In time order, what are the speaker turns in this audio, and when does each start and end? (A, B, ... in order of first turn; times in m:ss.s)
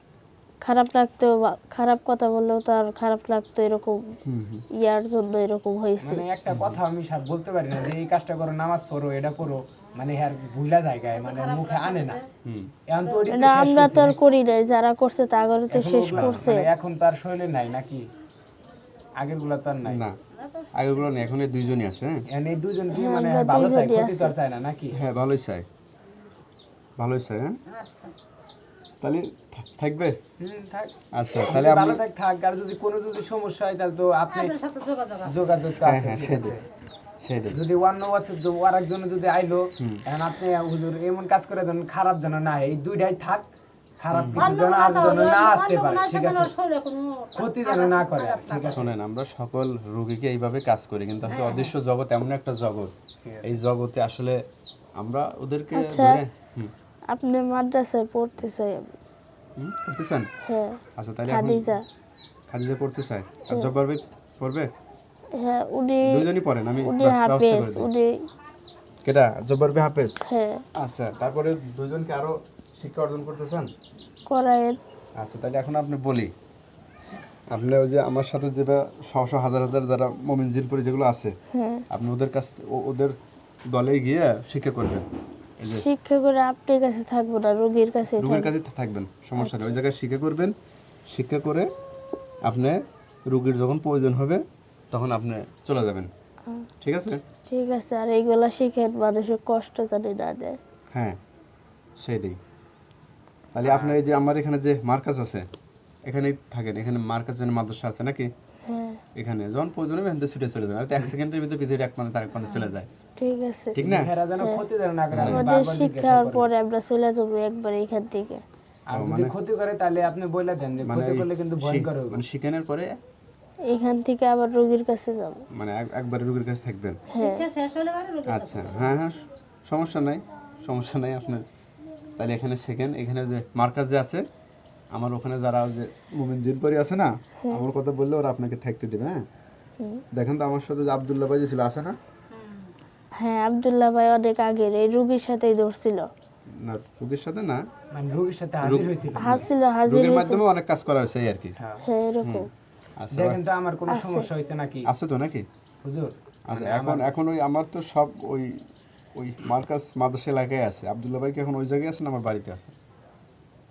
0:00.6-0:04.0 A
0:04.2-0:04.6 B
0:04.8-0:06.2 A
0:06.0-0:12.2 C
0:06.5-0:06.8 B
0:11.1-0:12.3 D
0:12.4-0:12.7 B
0:12.9-0:14.2 C
0:13.3-0:16.7 A
0:15.7-0:18.0 C
0:16.1-0:16.4 B
0:19.2-0:20.0 C
0:19.8-0:20.2 B
0:20.3-0:21.1 D
0:20.7-0:22.2 B
0:22.3-0:25.0 C
0:22.9-0:24.3 A
0:24.9-0:25.6 B
0:27.0-0:27.6 B
0:27.7-0:28.1 D
0:29.0-0:30.1 B
0:30.4-0:34.5 C
0:31.1-0:32.0 B
0:34.3-0:35.4 D
0:35.2-0:36.6 C
0:35.8-0:36.5 B
0:37.2-0:37.6 B
0:37.5-0:43.5 C
0:39.8-0:40.0 B
0:44.0-0:46.5 C
0:44.1-0:44.5 B
0:44.4-0:48.8 D
0:47.4-0:48.9 C
0:48.7-0:52.9 B
0:51.3-0:51.7 D
0:53.2-0:53.5 C
0:53.4-0:54.4 B
0:55.0-0:56.7 B
0:55.7-0:56.2 A
0:57.1-0:58.9 A
0:59.6-1:00.3 B
1:00.4-1:01.8 A
1:01.0-1:01.7 B
1:02.5-1:04.7 B
1:05.4-1:06.3 A
1:06.0-1:07.9 B
1:06.8-1:08.1 A
1:09.0-1:10.2 B
1:10.2-1:10.6 A
1:10.8-1:13.7 B
1:14.3-1:14.8 A
1:15.2-1:16.3 B
1:17.5-1:21.3 B
1:21.5-1:21.8 A
1:21.9-1:23.2 B
1:23.7-1:25.0 B
1:25.7-1:28.5 A
1:28.2-1:30.5 B
1:29.4-1:29.8 A
1:31.1-1:31.7 B
1:32.4-1:36.1 B
1:36.8-1:37.2 B
1:37.5-1:40.6 A
1:40.9-1:41.2 B
1:42.0-1:42.4 B
1:43.5-1:45.4 B
1:43.6-1:44.0 C
1:46.1-1:48.3 B
1:48.7-1:49.0 A
1:49.2-1:52.9 B
1:53.2-1:53.7 A
1:53.7-1:54.1 B
1:53.8-1:56.5 C
1:55.1-1:55.5 B
1:55.2-1:58.4 A
1:58.9-2:02.2 C
1:58.9-1:59.3 B
2:00.8-2:03.0 B
2:03.7-2:05.4 A
2:05.5-2:07.0 B
2:07.1-2:07.4 A
2:07.1-2:08.9 D
2:08.3-2:11.4 B
2:12.2-2:14.2 B
2:14.9-2:19.2 B
2:17.4-2:17.7 A
2:20.1-2:22.0 B
2:22.3-2:22.7 D
2:23.2-2:26.0 A
2:26.6-2:27.6 B
2:27.9-2:29.4 C
2:28.6-2:31.6 B
2:29.2-2:30.4 A
2:31.6-2:31.8 C
2:31.8-2:32.5 A
2:33.0-2:33.4 B
2:33.1-2:34.9 C
2:33.9-2:34.3 A
2:34.8-2:35.4 B
2:35.8-2:37.1 C
2:36.5-2:38.6 B
2:39.2-2:42.7 B